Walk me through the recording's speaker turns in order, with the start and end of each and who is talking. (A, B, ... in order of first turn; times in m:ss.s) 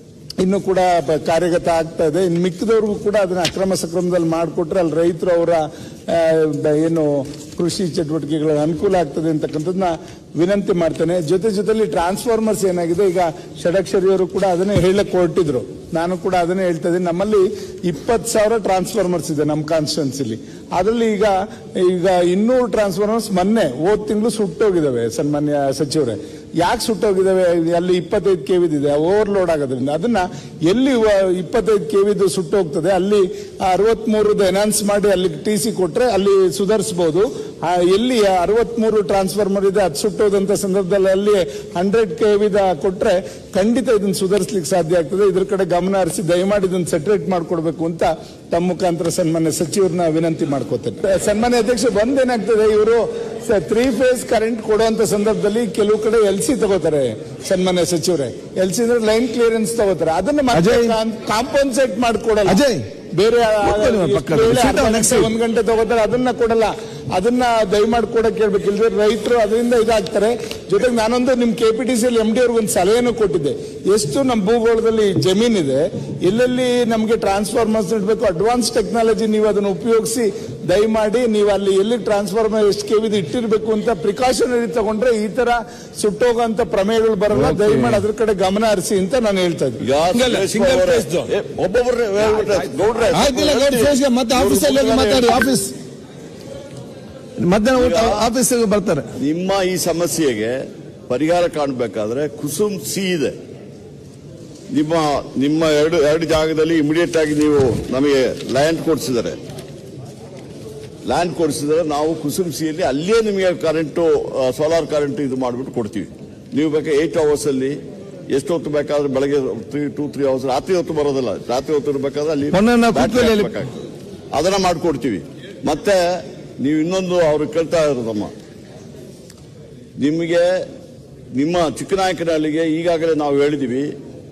0:00.4-1:02.6 A
1:00.5-1:01.0 B
1:02.5-1:02.9 B
1:03.2-1:29.8 A
1:03.6-1:05.3 B
1:27.3-1:28.0 B
1:29.8-1:35.5 C
1:30.1-1:31.3 B
1:33.1-1:35.7 B
1:37.4-1:39.1 B
1:37.7-1:38.3 C
1:39.2-1:40.6 C
1:41.1-1:43.4 C
1:44.7-1:49.4 C
1:51.1-1:57.8 C
1:58.3-2:03.7 C
2:02.5-2:03.5 B
2:04.3-2:08.3 C
2:10.0-2:10.7 C
2:11.4-2:13.9 C